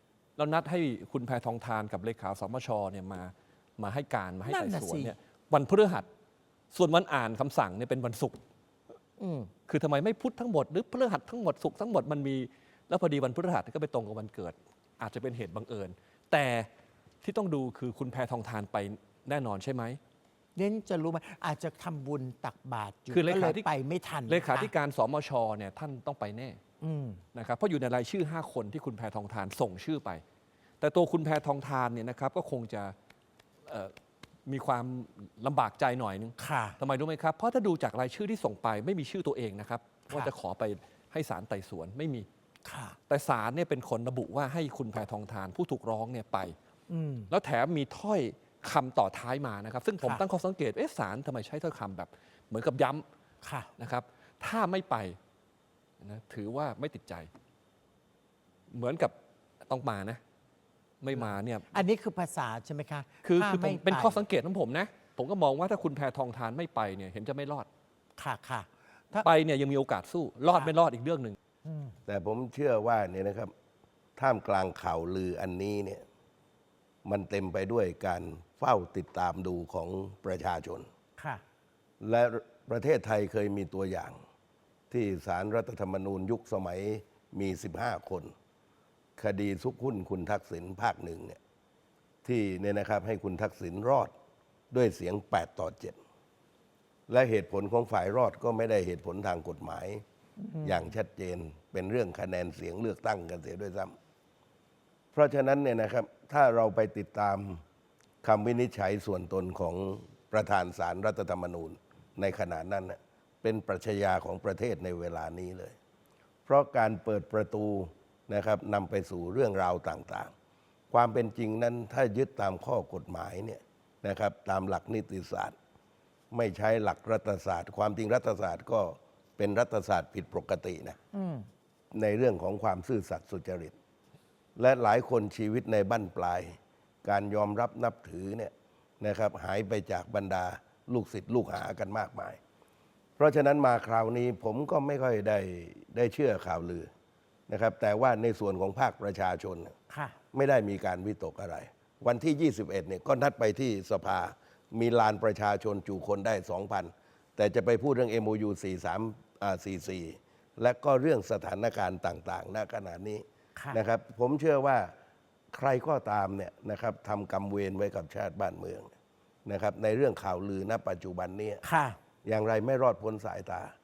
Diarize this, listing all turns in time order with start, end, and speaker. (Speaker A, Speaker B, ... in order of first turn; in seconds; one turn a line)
Speaker A: 0.4-6.1
Speaker B: 4.5-5.1
Speaker A: 6.7-8.4
Speaker B: 9.2-9.5
Speaker A: 9.7-16.7
Speaker A: 17.2-20.0
Speaker B: 20.6-24.7
Speaker A: 23.1-23.7
Speaker A: 24.3-26.6
Speaker B: 26.8-27.2
Speaker A: 27.3-30.2
Speaker A: 30.8-33.0
Speaker A: 33.7-33.9
Speaker A: 34.5-42.3
Speaker B: 36.4-36.8
Speaker B: 42.6-43.0
Speaker A: 43.1-46.5
Speaker B: 46.9-47.3
Speaker A: 47.3-53.0
Speaker B: 53.4-53.7
Speaker A: 53.8-55.2
Speaker A: 56.0-57.3
Speaker A: 58.7-59.1
Speaker A: 59.7-60.2
Speaker A: 61.0-61.8
Speaker B: 61.1-64.2
Speaker A: 63.2-67.7
Speaker B: 68.2-69.3
Speaker A: 69.2-71.4
Speaker B: 71.7-72.0
Speaker C: 72.1-73.5
Speaker C: 74.2-76.0
Speaker C: 77.0-80.9
Speaker B: 81.2-81.4
Speaker C: 82.0-84.2
Speaker C: 84.9-88.3
Speaker C: 89.2-91.4
Speaker C: 92.2-94.1
Speaker C: 94.7-96.0
Speaker C: 97.1-100.0
Speaker B: 100.4-100.9
Speaker C: 100.6-104.0
Speaker C: 105.1-107.6
Speaker C: 108.2-115.8
Speaker C: 116.5-120.3
Speaker C: 120.9-125.5
Speaker C: 126.3-131.0
Speaker B: 131.1-131.5
Speaker C: 131.9-133.8
Speaker C: 134.6-142.4
Speaker C: 143.2-146.9
Speaker C: 147.5-149.8
Speaker B: 149.9-150.2
Speaker C: 150.3-164.9
Speaker C: 165.5-168.9
Speaker C: 169.5-171.6
Speaker B: 171.6-172.0
Speaker C: 172.2-173.7